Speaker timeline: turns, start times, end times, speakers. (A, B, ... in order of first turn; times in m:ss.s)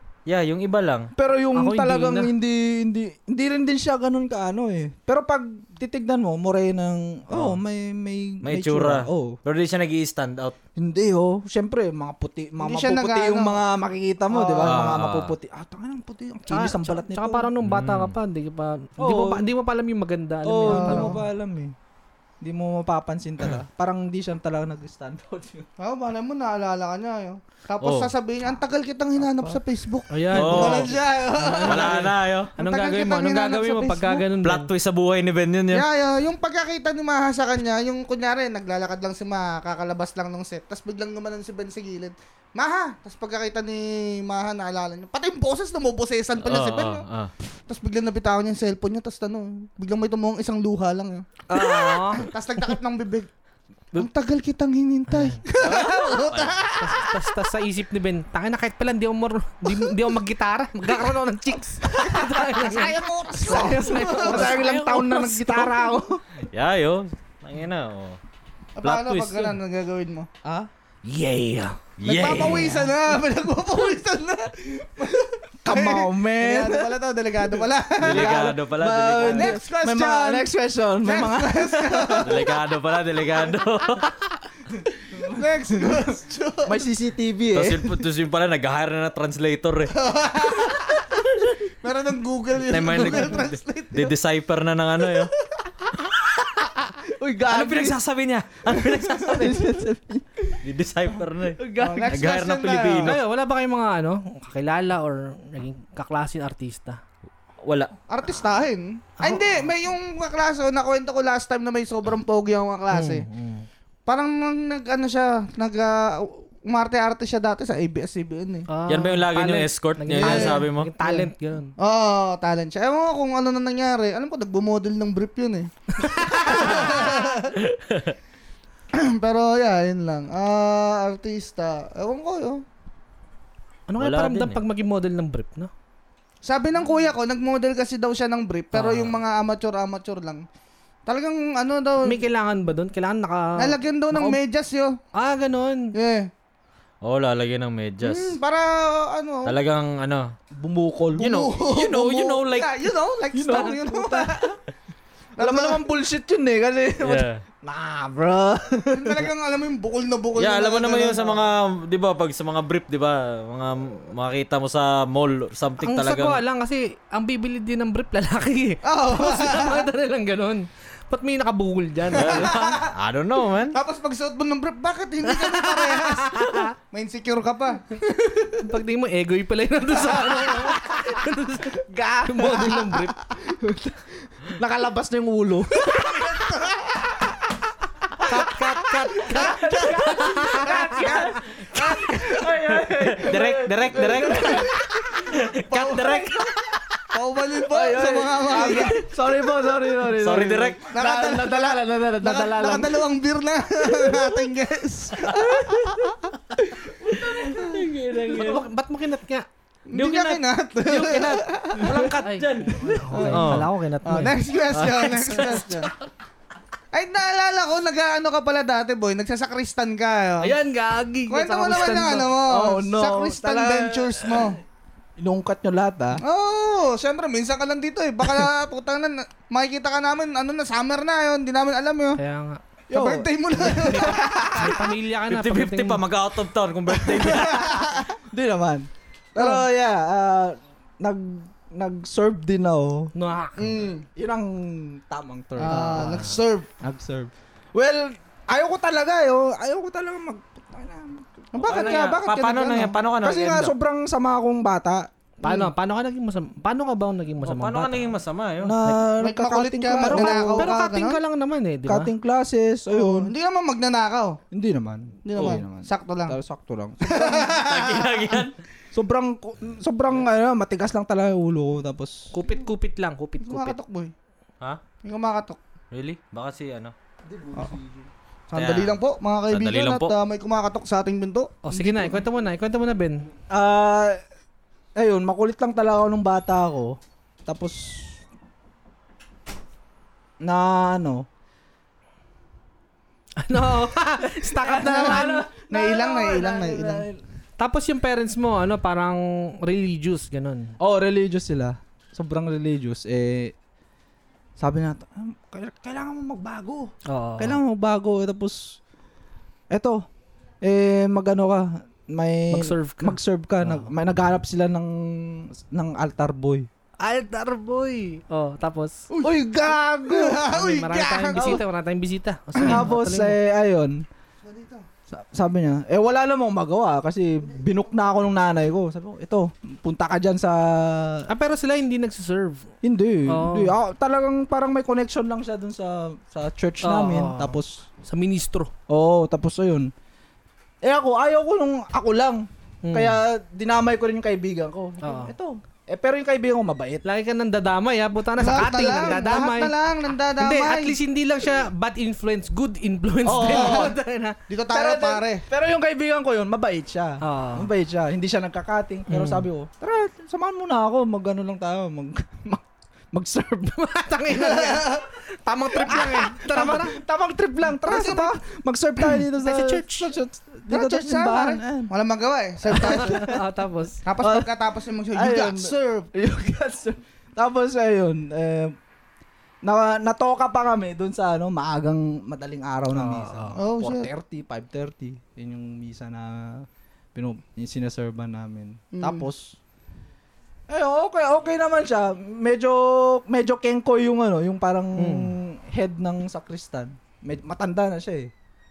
0:00.3-0:01.1 A
0:01.2-0:09.4 B
0:01.6-0:02.3 C
0:07.3-0:07.6 A
0:08.4-0:10.6 A
0:10.8-0:17.5 B
0:12.6-0:13.6 D
0:14.3-0:15.0 D
0:14.6-0:15.4 A
0:16.5-0:21.2 C
0:17.6-0:18.2 A
0:19.0-0:19.5 B
0:20.4-0:21.8 B
0:20.7-0:21.2 D
0:22.4-0:25.7 B
0:25.8-0:34.2 D
0:27.8-0:28.1 A
0:29.2-0:29.6 B
0:30.1-0:34.7 C
0:30.3-0:31.0 A
0:31.6-0:32.5 A
0:34.4-0:35.9 A
0:35.7-0:47.0 D
0:46.4-0:47.3 A
0:47.7-0:53.3 D
0:51.5-0:52.3 C
0:53.9-0:57.3 D
0:55.1-0:55.4 C
0:55.6-0:56.8 A
0:56.8-1:05.9 C
1:02.0-1:04.6 D
1:03.5-1:06.2 B
1:04.4-1:05.0 A
1:06.5-1:08.2 A
1:08.8-1:10.3 D
1:08.8-1:09.6 A
1:10.4-1:11.2 B
1:11.1-1:11.8 C
1:12.0-1:12.9 A
1:12.0-1:18.5 D
1:15.6-1:22.4 B
1:18.0-1:19.6 A
1:19.2-1:20.5 D
1:21.0-1:22.4 D
1:22.2-1:24.1 A
1:25.1-1:26.1 B
1:25.2-1:26.8 D
1:26.6-1:28.0 B
1:27.5-1:29.9 A
1:29.9-1:31.2 D
1:31.8-1:34.1 D
1:32.6-1:35.3 A
1:37.0-1:38.0 B
1:37.5-1:39.7 A
1:38.7-1:40.6 B
1:40.6-1:43.2 A
1:41.6-1:42.3 B
1:41.8-1:43.2 D
1:43.0-1:47.0 C
1:47.6-1:47.9 A
1:48.1-1:53.3 D
1:49.2-1:49.5 C
1:52.9-1:53.7 C
1:54.1-1:58.7 D
1:58.7-2:01.7 C
1:58.9-2:00.9 A
2:00.2-2:07.6 D
2:06.0-2:07.1 C
2:07.6-2:08.1 A
2:08.9-2:12.6 D
2:13.9-2:15.7 C
2:14.0-2:14.6 A
2:16.4-2:20.4 D
2:18.8-2:19.1 C
2:21.1-2:22.2 D
2:22.0-2:24.4 C
2:23.6-2:25.0 D
2:25.1-2:26.0 C
2:26.0-2:26.3 D
2:27.0-2:28.4 A
2:28.0-2:29.6 D
2:29.4-2:30.3 A
2:30.5-2:31.3 B
2:31.2-2:34.6 D
2:31.2-2:32.9 A
2:33.3-2:34.6 B
2:35.4-2:35.8 D
2:35.4-2:39.3 B
2:37.0-2:37.4 A
2:38.9-2:41.4 D
2:40.4-2:46.4 A
2:45.8-2:52.6 C
2:48.8-2:49.9 D
2:52.1-2:52.9 D
2:52.1-2:53.8 A
2:53.7-2:58.6 D
2:55.3-2:56.7 C
2:58.6-3:03.2 C
3:00.1-3:00.4 D
3:01.8-3:06.4 B
3:05.8-3:07.1 D
3:08.2-3:11.2 C
3:09.2-3:15.2 B
3:09.4-3:09.8 D
3:10.6-3:11.3 D
3:12.7-3:16.8 A
3:15.7-3:16.4 D
3:17.1-3:19.0 D
3:17.7-3:23.0 B
3:20.1-3:20.8 A
3:20.9-3:26.1 D
3:23.9-3:24.3 B
3:25.2-3:26.1 A
3:27.1-3:28.6 A
3:28.3-3:29.5 C
3:29.9-3:32.0 D
3:29.9-3:33.7 A
3:31.1-3:34.4 C
3:33.2-3:33.5 D
3:34.0-3:35.9 D
3:34.7-3:35.8 A
3:36.9-3:40.5 D
3:40.4-3:42.3 C
3:41.3-3:44.6 D
3:42.4-3:44.6 B
3:45.2-3:46.2 B
3:46.2-3:52.2 D
3:52.2-3:52.6 C
3:52.9-3:54.8 B
3:52.9-3:54.8 D
3:53.6-3:56.0 C
3:55.3-3:57.9 A
3:57.0-3:58.1 D
3:58.2-4:03.1 B
3:59.4-3:59.6 D
4:03.1-4:03.7 C
4:03.6-4:04.0 D
4:04.2-4:06.3 B
4:05.6-4:06.7 D
4:05.6-4:06.3 C
4:06.8-4:12.0 B
4:11.6-4:13.0 D
4:11.6-4:13.7 A
4:13.2-4:15.1 B
4:15.4-4:18.1 C
4:17.4-4:18.8 A
4:18.6-4:20.8 B
4:19.2-4:21.2 D
4:20.0-4:22.1 C
4:21.9-4:23.3 B
4:22.9-4:24.4 D
4:24.5-4:27.6 B
4:25.2-4:26.4 D
4:27.0-4:28.4 D
4:27.6-4:28.6 A
4:28.9-4:32.3 B
4:32.3-4:33.8 C
4:33.4-4:34.1 D
4:35.0-4:35.6 D
4:35.9-4:36.9 A
4:37.2-4:38.1 B
4:38.5-4:42.1 D
4:38.5-4:39.0 A
4:39.5-4:40.2 A
4:41.6-4:43.3 C
4:43.5-4:44.2 B
4:45.0-4:48.2 B
4:50.4-4:51.3 B
4:53.4-4:55.5 C
4:54.3-4:57.2 B
4:54.7-4:57.1 D
4:57.6-5:00.7 C
5:00.8-5:03.5 B
5:04.6-5:08.8 B
5:07.1-5:07.6 C
5:09.7-5:10.1 B
5:10.6-5:16.7 B
5:12.5-5:13.9 C
5:17.0-5:19.0 C
5:19.1-5:21.6 D
5:19.2-5:20.4 B
5:20.5-5:23.4 C
5:21.3-5:21.6 B
5:22.6-5:24.0 B
5:24.4-5:24.9 D
5:25.1-5:31.3 B
5:31.3-5:32.7 C
5:32.8-5:37.8 B
5:33.3-5:33.7 C
5:36.8-5:38.7 C
5:38.9-5:39.9 B
5:40.8-5:47.0 B
5:42.8-5:43.2 C
5:45.0-5:45.3 C
5:47.0-5:49.7 C
5:48.4-5:51.0 D
5:48.6-5:49.5 B
5:50.4-5:54.4 C
5:53.2-5:54.0 B
5:53.5-5:54.0 D
5:54.5-5:55.4 D
5:54.7-6:03.8 B
5:57.2-5:57.7 C
5:59.1-5:59.5 C
6:03.7-6:07.0 C
6:04.3-6:05.0 D
6:05.7-6:11.9 B
6:07.9-6:08.3 C
6:07.9-6:08.2 D
6:09.4-6:10.1 C
6:10.7-6:13.3 D
6:12.7-6:13.4 B
6:12.8-6:14.0 C
6:14.0-6:16.1 D
6:14.2-6:14.5 B
6:15.1-6:18.8 B
6:19.6-6:29.6 B
6:22.9-6:23.6 C
6:23.6-6:24.1 D
6:28.9-6:29.3 D
6:30.7-6:38.3 B
6:35.0-6:35.4 C